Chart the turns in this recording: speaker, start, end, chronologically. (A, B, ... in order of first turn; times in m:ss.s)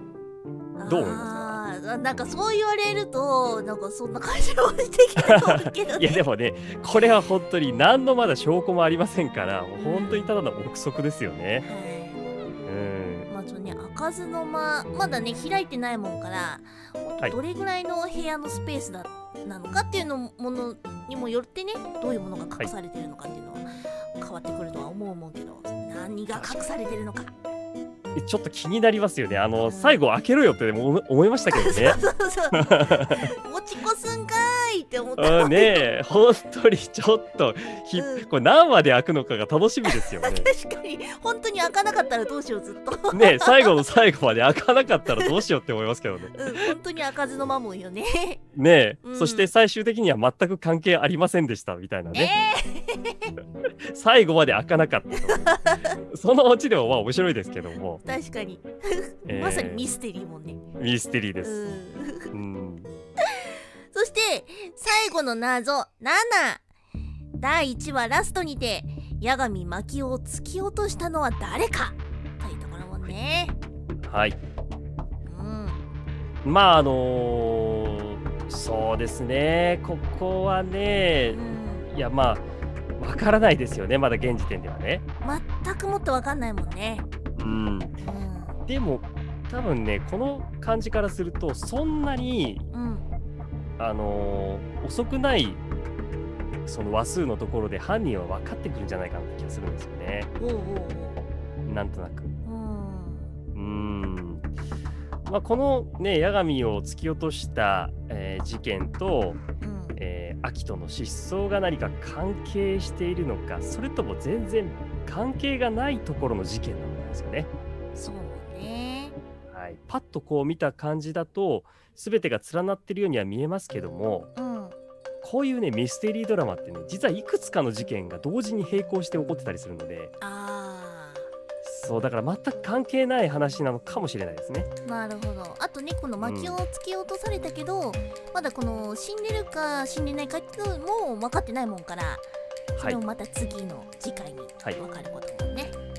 0:00.8-0:06.2 A
0:00.8-0:01.6 B
0:05.2-0:11.6 B
0:09.8-0:10.2 A
0:11.6-0:12.2 A
0:12.6-0:13.3 B
0:13.3-0:27.3 A
0:26.3-0:26.6 B
0:28.1-0:32.0 B
0:29.6-0:30.0 A
0:31.5-0:35.9 A
0:32.5-0:33.3 B
0:35.2-0:40.5 B
0:37.9-0:38.3 A
0:39.9-0:43.8 A
0:43.1-0:46.7 B
0:45.1-0:45.4 A
0:46.3-0:48.4 A
0:48.5-0:52.3 B
0:49.0-0:49.5 A
0:52.1-0:53.4 A
0:53.9-0:58.0 B
0:55.3-0:56.0 A
0:58.0-1:00.6 A
0:59.3-0:59.9 B
1:00.8-1:01.6 B
1:01.4-1:02.3 A
1:02.3-1:02.9 B
1:03.3-1:06.6 A
1:07.4-1:13.6 A
1:14.0-1:14.4 B
1:15.2-1:15.8 A
1:16.4-1:22.4 B
1:21.3-1:21.9 A
1:23.0-1:25.0 B
1:25.2-1:27.0 A
1:27.4-1:28.0 B
1:28.0-1:28.6 A
1:28.7-1:32.6 B
1:32.7-1:33.0 A
1:33.8-1:35.6 B
1:36.6-1:40.3 B
1:40.4-1:41.2 A
1:41.6-1:42.3 B
1:42.4-1:43.3 A
1:43.5-1:44.5 B
1:45.3-1:49.4 B
1:49.6-1:50.0 A
1:50.0-1:57.5 B
1:57.9-1:59.1 A
1:59.5-2:04.3 B
2:04.4-2:04.7 A
2:05.2-2:10.1 B
2:10.2-2:11.3 A
2:11.6-2:14.7 B
2:14.8-2:25.7 A
2:16.2-2:16.6 B